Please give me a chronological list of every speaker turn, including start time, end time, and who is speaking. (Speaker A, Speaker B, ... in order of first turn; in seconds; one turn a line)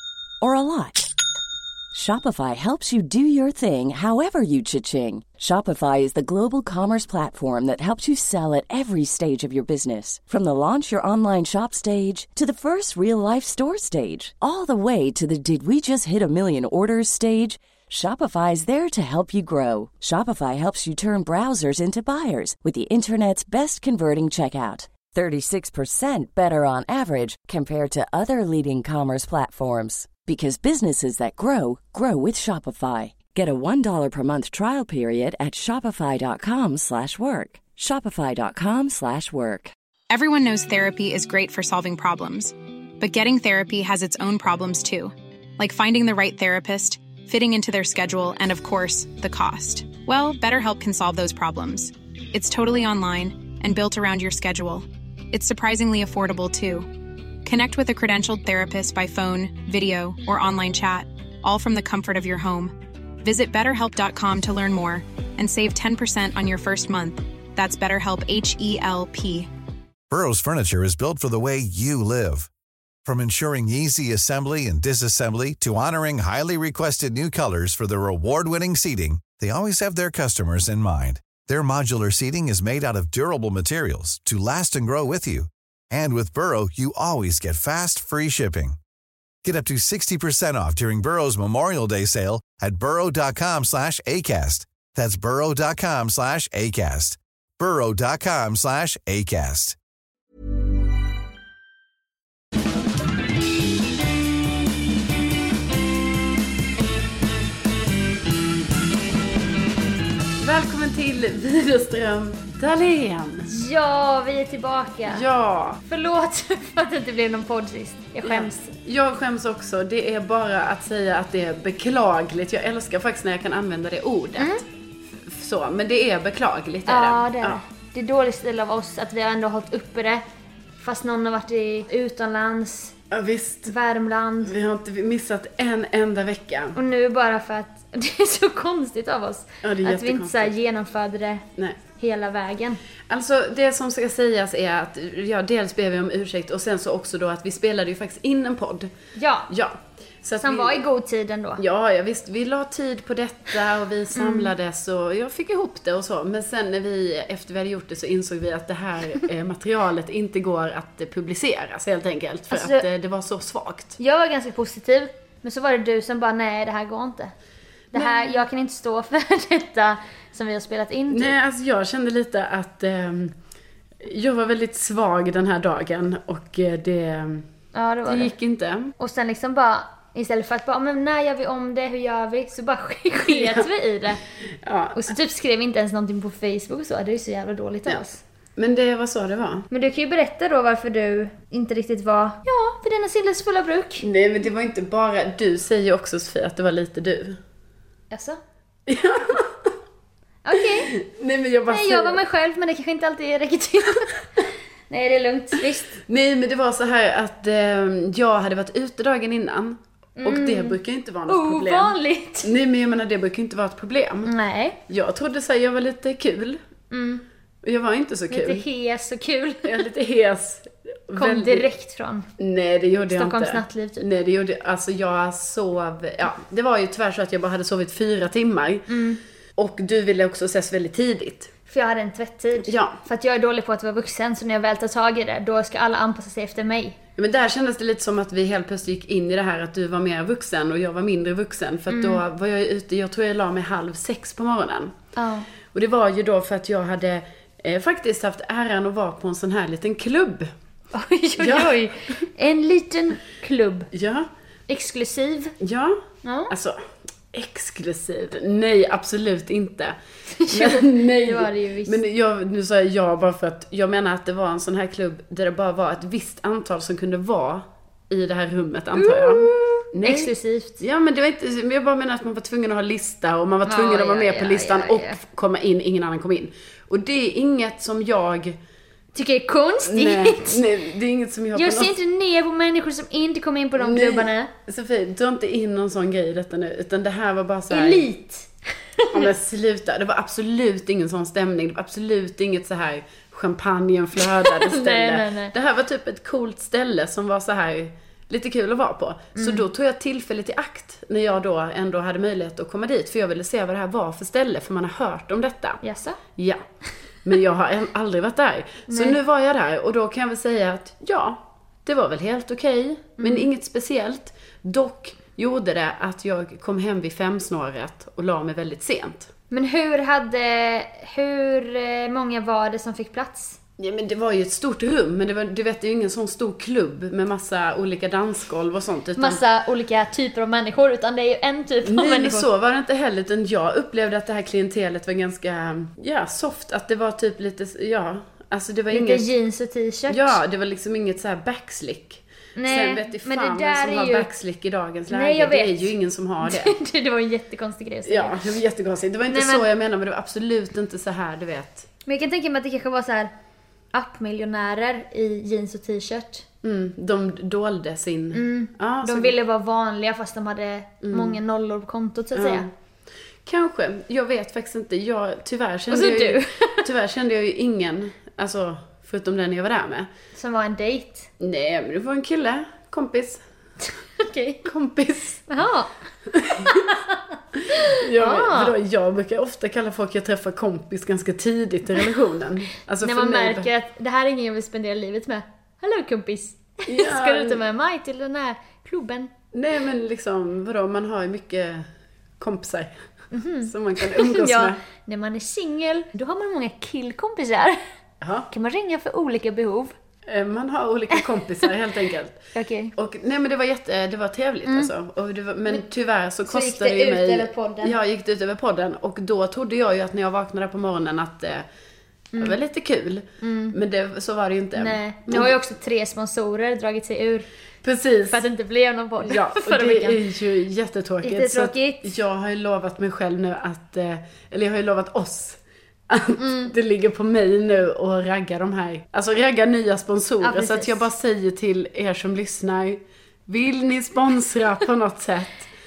Speaker A: 0.4-1.1
Speaker A: 1.9-39.7
Speaker B: 40.1-56.9
Speaker B: 57.4-69.5
Speaker C: 70.1-72.5
Speaker C: 73.0-88.8
Speaker C: 89.4-99.8
Speaker D: 110.4-113.5
Speaker E: 113.5-115.2
Speaker D: 115.1-115.8
Speaker E: 115.9-118.6
Speaker D: 118.2-124.6
Speaker E: 124.4-124.6
Speaker D: 125.1-127.6
Speaker E: 126.9-130.2
Speaker E: 130.8-132.9
Speaker D: 133.1-133.7
Speaker E: 133.7-134.5
Speaker D: 134.4-136.8
Speaker E: 136.8-141.4
Speaker D: 139.6-140.5
Speaker D: 141.6-141.8
Speaker E: 141.9-142.8
Speaker D: 143.1-148.9
Speaker E: 149.2-149.5
Speaker D: 149.5-150.8
Speaker E: 150.4-151.6
Speaker D: 151.6-164.0
Speaker E: 154.2-154.5
Speaker E: 162.5-162.8
Speaker E: 164.0-167.3
Speaker E: 167.9-171.3
Speaker D: 167.9-168.4
Speaker D: 171.1-173.3
Speaker D: 174.0-177.5
Speaker E: 177.7-178.3
Speaker D: 178.0-178.9
Speaker E: 179.0-184.2
Speaker D: 183.2-183.7
Speaker D: 184.6-185.1
Speaker E: 184.9-188.2
Speaker D: 188.6-189.7
Speaker E: 189.7-194.0
Speaker D: 194.0-197.4
Speaker E: 198.1-198.4
Speaker D: 198.9-199.7
Speaker E: 200.4-200.9
Speaker D: 200.6-202.2
Speaker E: 201.7-204.2
Speaker E: 204.9-206.0
Speaker D: 206.0-214.3
Speaker E: 210.2-212.5
Speaker E: 214.2-214.8
Speaker D: 214.9-216.6
Speaker E: 216.9-217.2
Speaker D: 217.6-218.7
Speaker E: 218.3-219.8
Speaker D: 219.6-221.7
Speaker E: 221.2-222.3
Speaker D: 222.4-228.9
Speaker E: 223.1-224.0
Speaker E: 228.9-229.2
Speaker D: 229.6-231.5
Speaker E: 231.7-237.0
Speaker D: 232.6-233.0
Speaker D: 237.2-244.9
Speaker E: 241.9-242.2
Speaker E: 245.2-245.5
Speaker D: 245.7-250.5
Speaker E: 250.9-253.9
Speaker D: 251.4-251.7
Speaker D: 253.9-254.3
Speaker E: 254.7-255.5
Speaker D: 255.6-259.9
Speaker E: 256.2-256.5
Speaker E: 260.4-261.9
Speaker D: 260.5-278.6
Speaker E: 268.9-270.8
Speaker E: 273.6-275.2
Speaker E: 279.1-280.6
Speaker D: 279.8-282.0
Speaker E: 281.6-284.5
Speaker D: 283.8-288.1
Speaker E: 287.7-289.3
Speaker D: 289.1-305.8
Speaker E: 294.5-295.5
Speaker E: 299.4-299.6
Speaker E: 305.8-306.2
Speaker D: 306.4-306.6
Speaker D: 307.2-319.3
Speaker E: 308.9-309.2
Speaker E: 313.2-313.5
Speaker E: 319.5-323.6
Speaker D: 323.8-329.4
Speaker E: 329.2-332.5
Speaker D: 331.8-339.2
Speaker E: 338.9-340.4
Speaker D: 340.1-346.8
Speaker E: 342.6-344.2
Speaker E: 345.1-345.9
Speaker E: 346.4-348.4
Speaker D: 348.0-351.9
Speaker E: 349.3-349.6
Speaker E: 352.0-353.3
Speaker E: 353.9-356.4
Speaker D: 356.6-359.3
Speaker E: 358.3-362.6
Speaker D: 361.0-361.4
Speaker D: 362.3-362.7
Speaker D: 363.4-370.1
Speaker E: 365.9-366.9
Speaker E: 370.3-371.3
Speaker D: 371.4-373.4
Speaker E: 374.2-374.6
Speaker D: 374.6-375.4
Speaker E: 375.5-375.9
Speaker D: 376.3-376.9
Speaker E: 376.6-377.2
Speaker D: 377.7-383.7
Speaker E: 377.7-378.7
Speaker E: 383.0-389.3
Speaker D: 386.9-387.6
Speaker D: 389.5-393.0
Speaker E: 393.3-397.8
Speaker D: 393.6-394.8
Speaker D: 398.2-398.5
Speaker E: 398.5-399.9
Speaker D: 400.3-402.4
Speaker E: 402.5-402.9
Speaker D: 402.9-411.6
Speaker E: 406.5-407.9
Speaker D: 412.4-415.6
Speaker E: 413.4-413.8
Speaker E: 414.8-417.5
Speaker D: 417.8-418.4
Speaker E: 418.3-420.2
Speaker D: 419.2-435.7
Speaker E: 421.2-422.1
Speaker E: 426.4-426.7
Speaker E: 430.4-431.0